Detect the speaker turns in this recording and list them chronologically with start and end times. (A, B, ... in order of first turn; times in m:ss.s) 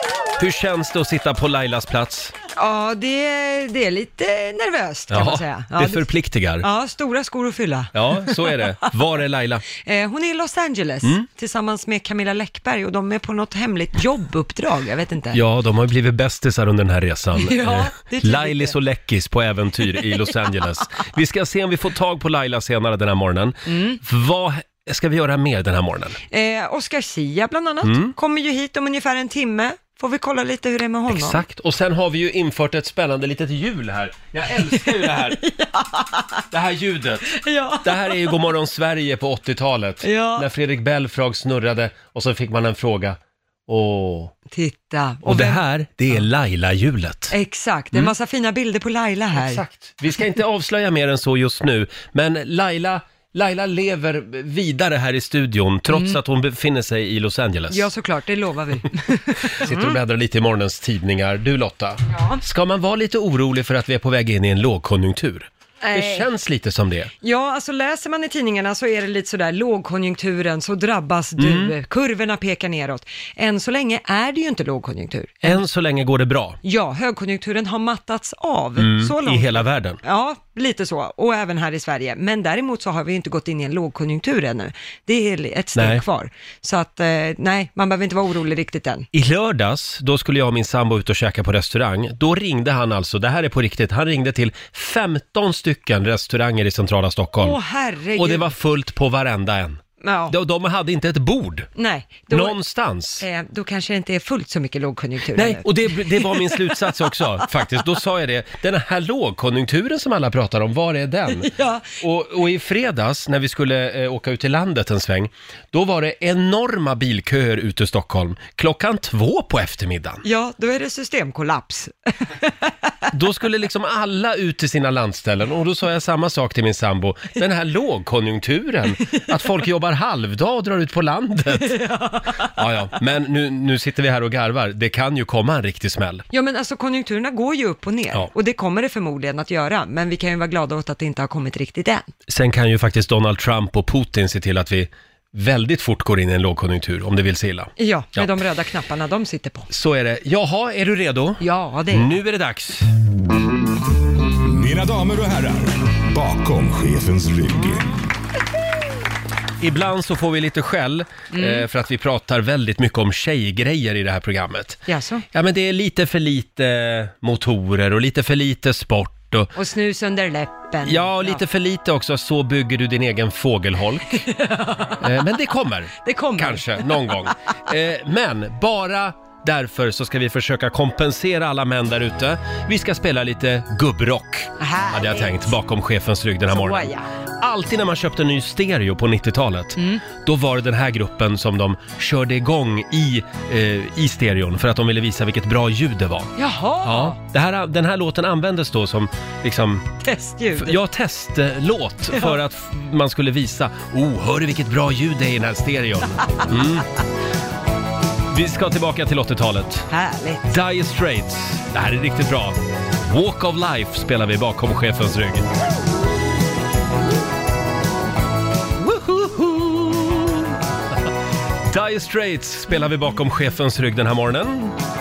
0:00.4-0:02.3 A
0:02.6-0:06.0 B
0:05.1-0:06.7 A
0:06.6-0:08.7 B
0:07.9-0:09.6 A
0:09.8-0:15.4 B
0:15.3-0:26.2 A
0:17.4-0:18.8 B
0:23.7-0:24.0 B
0:26.3-0:31.4 B
0:27.8-0:28.1 A
0:31.1-0:35.4 A
0:34.8-0:36.4 B
0:36.5-0:43.2 A
0:37.3-0:38.4 B
0:40.0-0:40.5 B
0:43.7-0:44.3 A
0:44.5-0:46.2 B
0:45.2-0:47.3 A
0:47.3-0:49.6 B
0:49.3-0:57.8 A
0:55.9-0:56.2 B
0:57.7-1:00.0 B
0:59.6-1:07.1 A
1:02.1-1:02.4 B
1:05.8-1:06.3 B
1:07.2-1:15.6 B
1:11.4-1:11.7 A
1:15.4-1:16.6 A
1:16.6-1:29.1 B
1:18.8-1:20.0 A
1:25.7-1:26.0 A
1:29.1-1:37.6 A
1:37.4-1:38.5 B
1:38.2-1:41.7 A
1:40.0-1:40.3 B
1:41.8-1:42.6 B
1:42.3-1:43.2 A
1:43.2-1:46.7 B
1:45.3-2:00.2 A
1:51.3-1:51.8 B
2:00.2-2:02.7 B
2:03.1-2:11.8 A
2:11.6-2:12.5 B
2:12.4-2:16.2 A
2:16.3-2:22.1 B
2:22.3-2:28.3 A
2:27.8-2:29.7 B
2:29.7-2:32.9 A
2:31.4-2:32.1 B
2:34.4-2:38.0 C
2:39.6-2:44.8 A
2:41.3-2:41.6 B
2:44.9-2:45.2 B
2:45.3-2:49.5 A
2:49.5-2:51.4 B
2:50.8-2:54.2 A
2:54.1-2:55.0 B
2:55.0-3:06.9 A
2:56.0-2:57.0 B
3:04.6-3:05.3 B
3:06.5-3:07.1 B
3:07.4-3:19.8 A
3:09.8-3:10.0 B
3:16.4-3:17.2 B
3:20.0-3:20.8 B
3:20.6-3:26.9 A
3:28.3-3:29.9 A
3:29.9-3:30.4 B
3:30.5-3:35.5 A
3:38.8-3:40.4 A
3:41.7-3:44.7 A